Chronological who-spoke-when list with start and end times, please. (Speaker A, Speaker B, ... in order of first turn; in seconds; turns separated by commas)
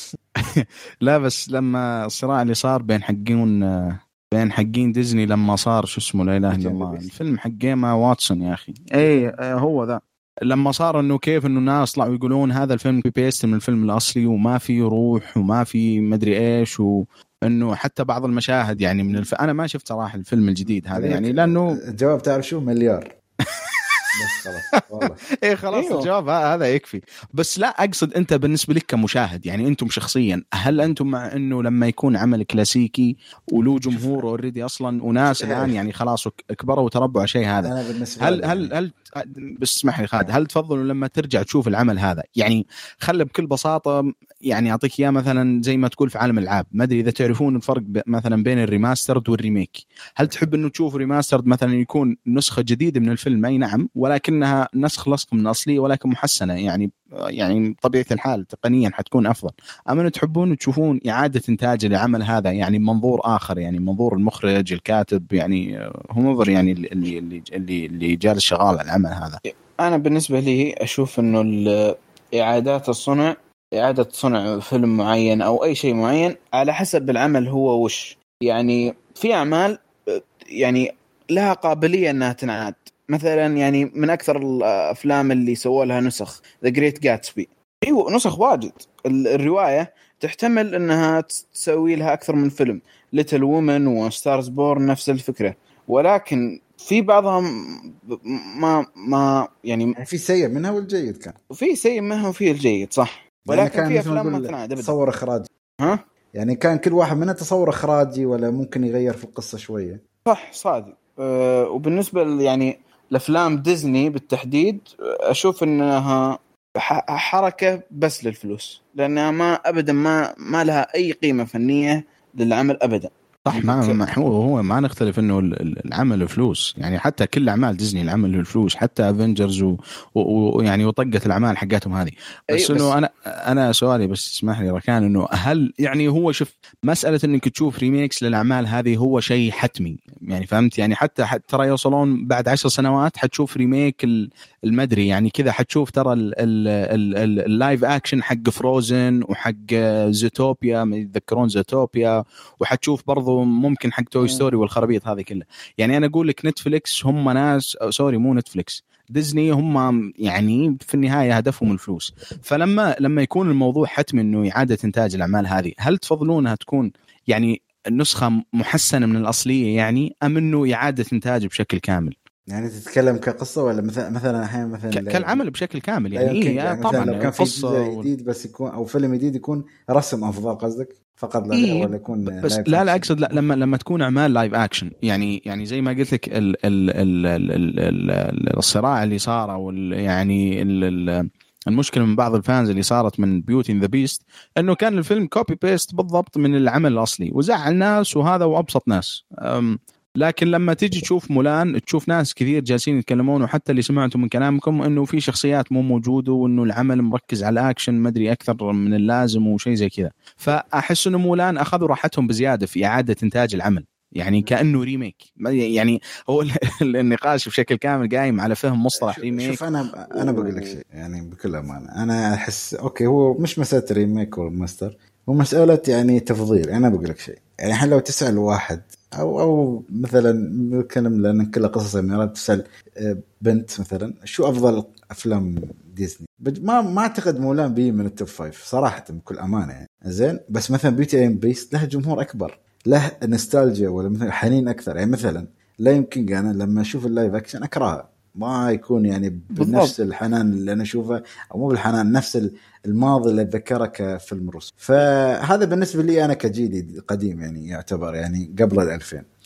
Speaker A: 0.5-21.8, Speaker B: 6.5-7.1, Speaker B: 20.9-23.1, Speaker A: 23.6-23.9, Speaker B: 24.1-25.2, Speaker A: 24.8-44.0, Speaker C: 25.7-26.1, Speaker B: 33.9-34.2, Speaker B: 35.2-35.8, Speaker B: 37.6-38.7, Speaker A: 44.5-69.4, Speaker C: 69.5-100.0, Speaker B: 100.0-101.3, Speaker C: 101.5-104.9, Speaker B: 103.5-105.5, Speaker B: 106.3-110.0, Speaker C: 110.2-124.0, Speaker A: 123.4-144.1, Speaker C: 132.5-132.9, Speaker A: 144.7-172.1, Speaker C: 154.2-154.5, Speaker B: 172.5-175.4, Speaker A: 174.9-178.1, Speaker B: 176.1-183.3, Speaker A: 181.5-219.6, Speaker B: 219.0-259.2, Speaker C: 249.6-249.9